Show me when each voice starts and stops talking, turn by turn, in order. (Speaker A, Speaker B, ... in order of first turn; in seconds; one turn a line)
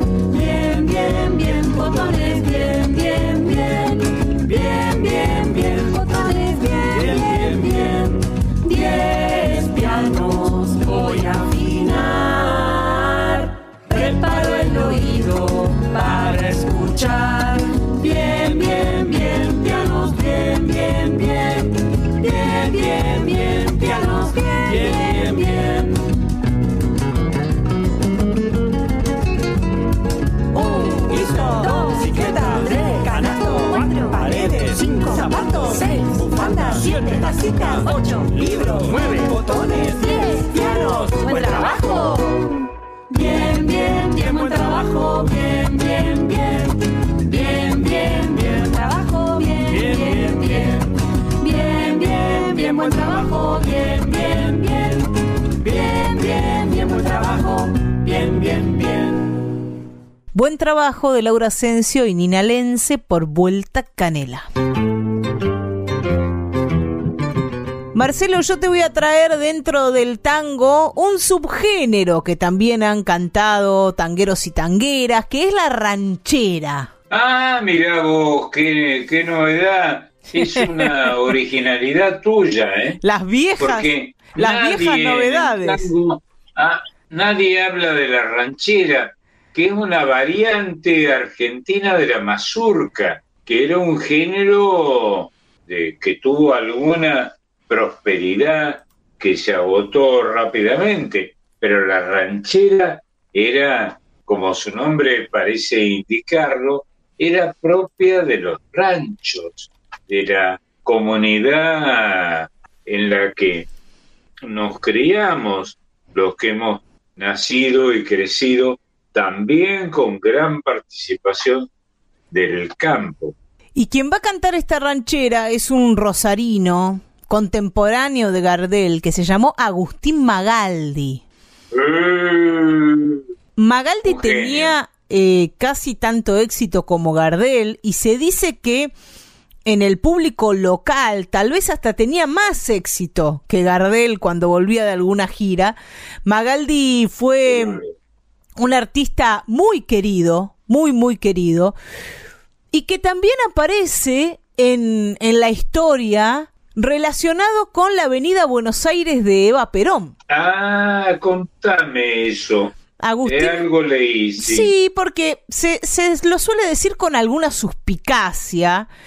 Speaker A: 0.3-8.1
Speaker A: 8.6-13.1
Speaker A: 13.9-21.3
Speaker A: 22.3-25.8
Speaker A: 30.6-42.4
Speaker A: 43.1-46.5
Speaker A: 47.3-50.8
Speaker A: 51.4-54.9
Speaker A: 55.9-57.4
Speaker B: 60.3-64.5
Speaker B: 67.9-76.9
Speaker C: 77.1-83.0
Speaker B: 80.4-80.7
Speaker B: 83.0-85.9
Speaker C: 83.6-113.7
Speaker C: 114.4-121.7
Speaker C: 122.3-123.4
Speaker B: 123.8-131.2
Speaker C: 131.7-133.2
Speaker B: 133.6-138.9
Speaker C: 134.1-134.8
Speaker B: 139.7-147.8
Speaker C: 147.5-147.9
Speaker B: 148.6-151.8
Speaker B: 152.7-160.1
Speaker C: 160.3-164.7
Speaker B: 163.0-163.6
Speaker B: 164.4-168.9